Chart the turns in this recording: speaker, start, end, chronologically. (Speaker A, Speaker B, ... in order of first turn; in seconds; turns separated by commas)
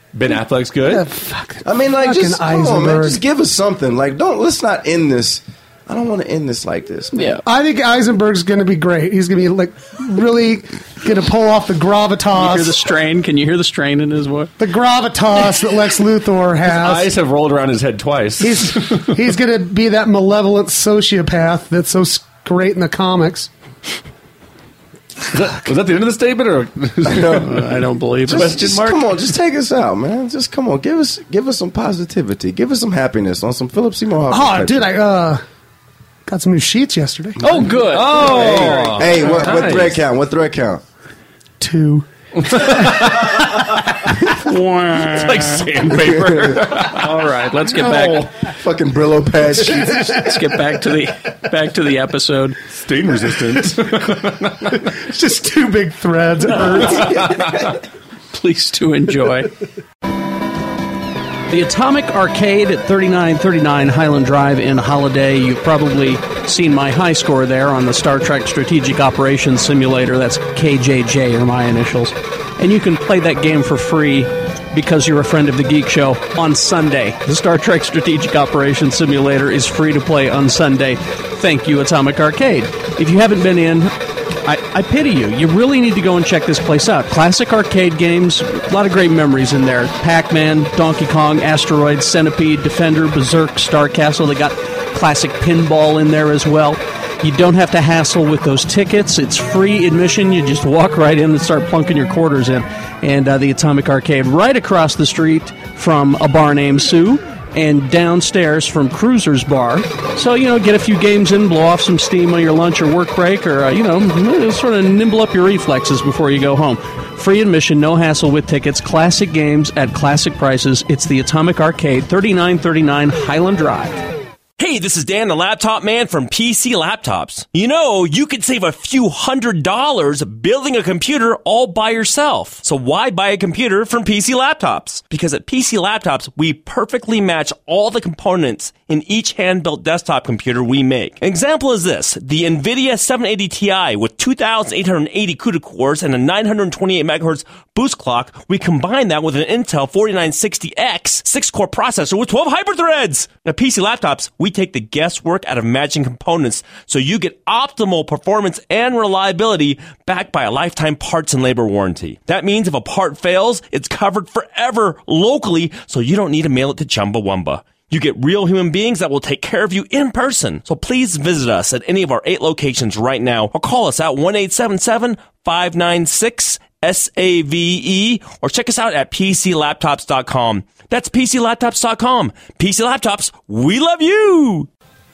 Speaker A: 0.1-1.1, Speaker B: 0.9-3.2, Speaker C: 1.6-7.2, Speaker D: 7.1-7.4, Speaker B: 7.5-12.8, Speaker D: 12.3-14.5, Speaker B: 14.6-17.1, Speaker A: 16.6-19.1, Speaker B: 18.4-23.5, Speaker A: 25.3-27.6, Speaker C: 27.0-27.6, Speaker D: 27.2-28.8, Speaker C: 28.3-34.9, Speaker A: 28.3-29.1, Speaker B: 34.3-35.4, Speaker B: 36.3-37.4, Speaker D: 37.4-39.5, Speaker C: 37.4-40.8, Speaker A: 37.9-40.0, Speaker B: 41.6-42.1, Speaker A: 42.4-43.8, Speaker D: 44.4-45.7, Speaker A: 44.5-48.3, Speaker C: 45.9-46.6, Speaker D: 46.8-48.3, Speaker C: 48.5-50.3, Speaker D: 50.1-52.6, Speaker A: 52.7-54.8, Speaker B: 54.9-57.4, Speaker A: 56.9-57.7, Speaker D: 58.3-59.5, Speaker D: 61.5-83.9, Speaker D: 84.5-124.0, Speaker E: 124.6-184.7